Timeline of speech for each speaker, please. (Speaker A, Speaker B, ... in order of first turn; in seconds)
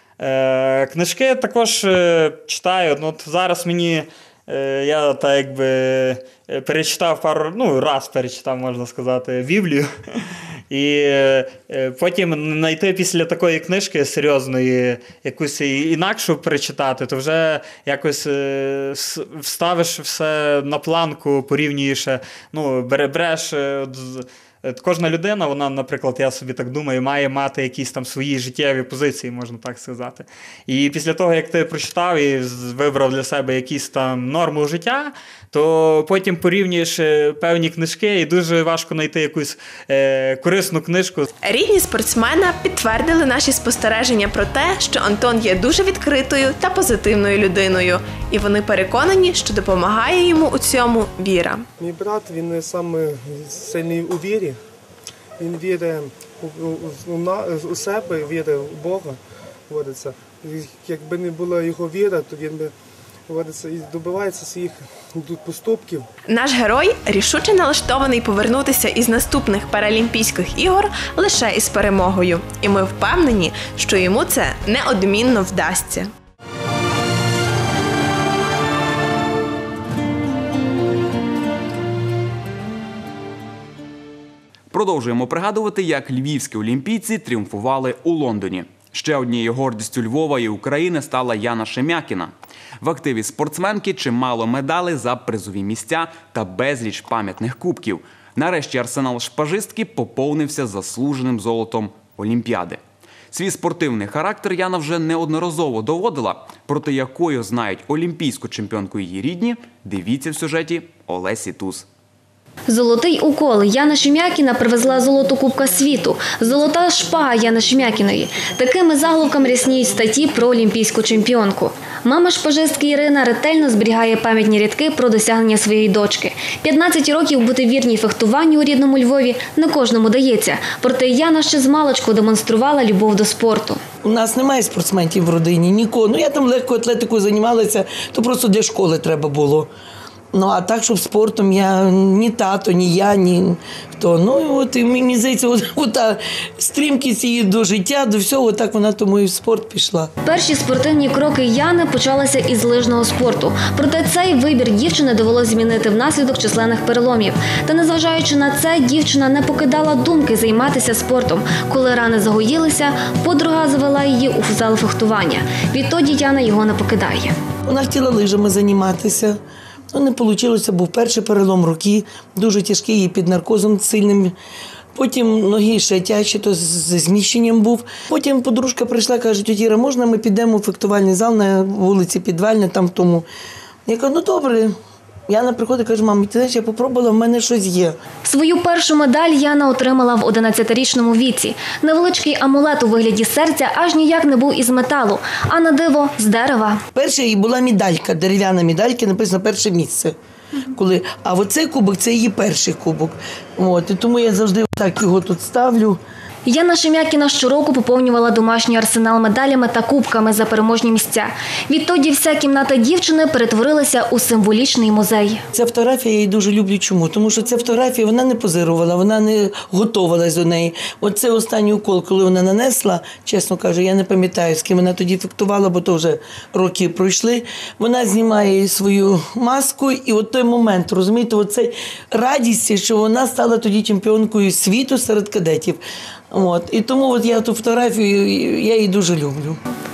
Speaker A: 0.2-41.3
Speaker B: 41.4-51.6, 66.3-76.1
Speaker C: 51.8-54.6, 55.4-62.7, 63.3-66.1
Speaker D: 84.7-102.8, 103.3-111.8
Speaker E: 112.7-133.8, 150.2-167.3, 188.2-196.8, 206.4-215.4
Speaker F: 134.0-139.7, 140.3-150.1, 167.7-169.4, 169.9-174.3, 174.9-183.2, 183.9-184.7, 185.3-188.0, 196.9-200.1, 200.7-206.0, 215.5-235.8, 236.3-239.6